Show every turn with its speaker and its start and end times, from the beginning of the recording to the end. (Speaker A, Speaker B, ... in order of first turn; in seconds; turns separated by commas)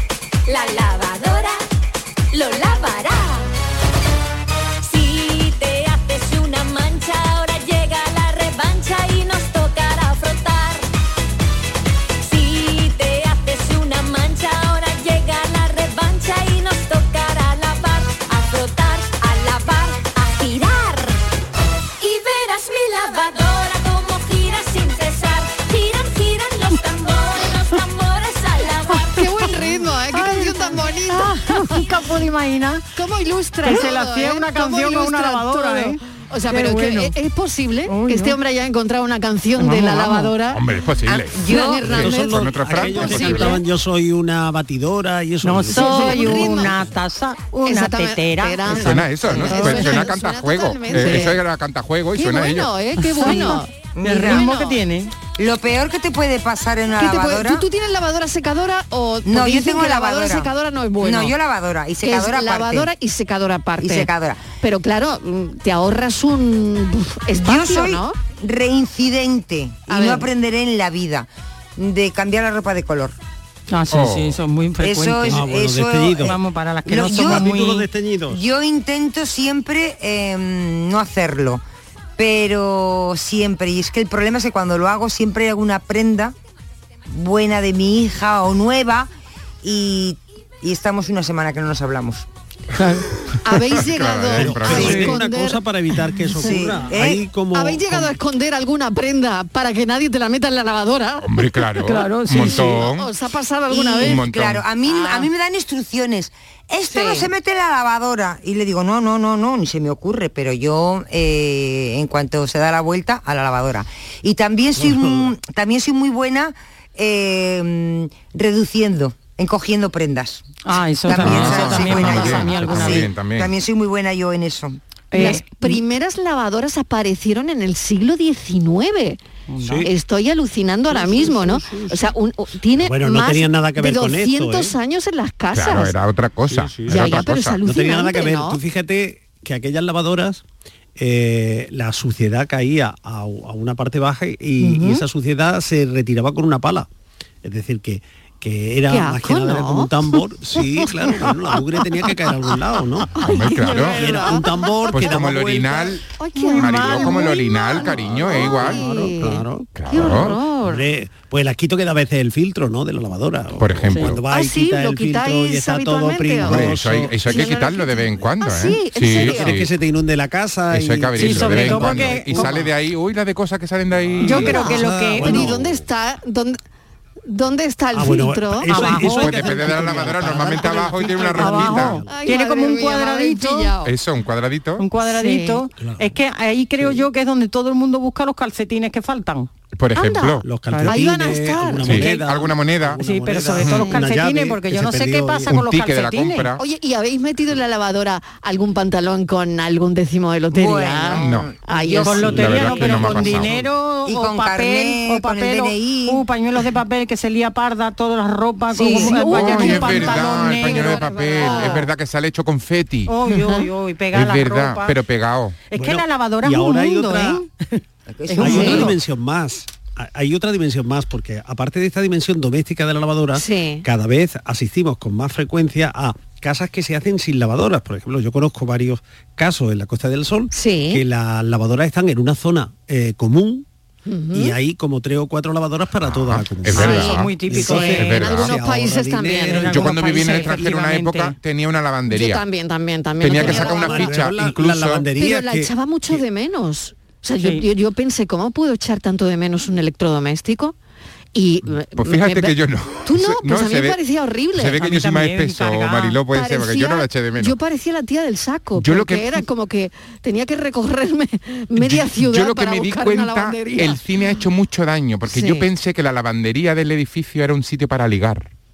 Speaker A: 0.5-1.6, Speaker A: 2.3-3.5, Speaker A: 4.8-10.9, Speaker A: 12.2-21.2, Speaker A: 22.0-29.6, Speaker B: 29.1-31.9, Speaker C: 29.6-32.9, Speaker B: 33.0-40.6, Speaker C: 33.6-37.2, Speaker C: 37.9-38.4, Speaker C: 39.6-40.3, Speaker D: 40.5-43.6, Speaker E: 41.1-41.9, Speaker B: 41.4-43.6, Speaker F: 41.9-46.9, Speaker C: 45.4-50.1, Speaker B: 45.7-46.8, Speaker B: 47.7-51.4, Speaker D: 48.7-52.7, Speaker B: 52.1-53.7, Speaker C: 53.0-55.1, Speaker E: 53.2-54.5, Speaker B: 54.2-54.7, Speaker E: 55.4-57.6, Speaker B: 57.0-61.4, Speaker E: 59.2-62.9, Speaker B: 62.0-64.1, Speaker E: 63.8-64.5, Speaker B: 64.6-68.2, Speaker E: 67.3-73.2, Speaker B: 69.9-70.3, Speaker C: 73.7-75.6, Speaker D: 73.9-74.4, Speaker E: 74.8-77.5, Speaker F: 75.3-76.4, Speaker C: 76.2-77.9, Speaker F: 77.0-78.4, Speaker E: 78.3-81.6, Speaker E: 82.2-86.3, Speaker E: 87.1-89.1, Speaker E: 89.6-92.2, Speaker C: 92.8-93.1, Speaker B: 93.4-95.6, Speaker D: 93.7-95.2, Speaker F: 94.3-98.2, Speaker E: 94.7-95.1, Speaker C: 94.8-95.1, Speaker E: 96.4-97.2, Speaker B: 97.5-101.6, Speaker D: 101.2-103.1, Speaker C: 101.8-102.8, Speaker B: 102.3-105.3, Speaker E: 103.7-120.5, Speaker D: 104.0-104.7, Speaker B: 106.9-107.3, Speaker F: 114.8-115.3, Speaker C: 120.7-123.1, Speaker E: 121.0-124.8, Speaker D: 121.2-123.5, Speaker C: 125.1-125.8, Speaker B: 125.1-129.2, Speaker C: 129.5-129.9, Speaker F: 129.6-129.9, Speaker B: 129.8-136.0, Speaker F: 130.9-132.1, Speaker F: 132.8-134.8, Speaker D: 135.5-137.6, Speaker F: 136.5-140.4, Speaker B: 136.9-138.6, Speaker F: 141.0-146.9, Speaker B: 144.6-145.0, Speaker F: 147.4-153.2, Speaker B: 148.9-150.0, Speaker B: 153.2-155.2, Speaker D: 153.2-154.1, Speaker F: 153.8-156.0, Speaker D: 154.9-158.8, Speaker B: 156.1-160.9, Speaker C: 156.3-157.3, Speaker F: 157.8-167.6, Speaker D: 159.8-160.4, Speaker D: 163.6-164.2, Speaker B: 164.3-169.6, Speaker D: 166.4-169.7, Speaker F: 169.1-172.7, Speaker D: 170.7-174.7, Speaker C: 171.2-172.6, Speaker F: 174.0-175.8, Speaker C: 174.2-175.6, Speaker B: 174.3-176.6, Speaker B: 177.3-179.1, Speaker F: 177.9-182.1, Speaker C: 178.7-179.4, Speaker D: 179.0-182.0, Speaker C: 181.3-183.8, Speaker B: 182.0-183.9, Speaker D: 183.8-184.8, Speaker C: 184.8-189.5, Speaker B: 185.0-185.6, Speaker F: 185.8-186.1, Speaker F: 186.8-187.1, Speaker D: 189.8-190.4, Speaker B: 189.9-192.1, Speaker F: 190.4-195.7, Speaker C: 190.7-191.0, Speaker D: 191.8-193.0, Speaker C: 193.0-196.5, Speaker B: 193.7-194.1, Speaker D: 195.7-196.6, Speaker B: 196.6-202.2, Speaker E: 200.5-203.3, Speaker D: 201.2-201.5, Speaker C: 202.0-211.8, Speaker D: 202.2-203.5, Speaker F: 202.5-203.7, Speaker E: 204.1-206.2, Speaker E: 208.8-209.3, Speaker B: 208.8-211.9, Speaker D: 209.3-213.1, Speaker C: 213.1-215.0, Speaker B: 213.3-213.7, Speaker D: 214.1-215.6, Speaker C: 215.7-218.9, Speaker F: 215.8-217.4, Speaker E: 218.1-218.9, Speaker F: 218.4-233.7, Speaker B: 218.5-218.9, Speaker B: 223.3-223.9, Speaker B: 230.5-231.0, Speaker B: 234.1-234.6, Speaker F: 234.3-240.8, Speaker D: 236.1-237.3, Speaker C: 236.7-238.4, Speaker B: 236.8-240.5, Speaker D: 238.0-238.6, Speaker C: 239.5-241.3, Speaker D: 239.7-242.4, Speaker B: 242.1-244.2, Speaker D: 243.2-245.1, Speaker F: 243.4-246.2, Speaker B: 245.1-250.8, Speaker C: 247.4-247.7, Speaker B: 251.3-254.8, Speaker D: 252.0-254.0, Speaker D: 254.5-257.6, Speaker C: 254.8-256.2, Speaker B: 256.3-264.4, Speaker D: 258.8-259.4, Speaker D: 261.8-268.5, Speaker B: 265.3-265.7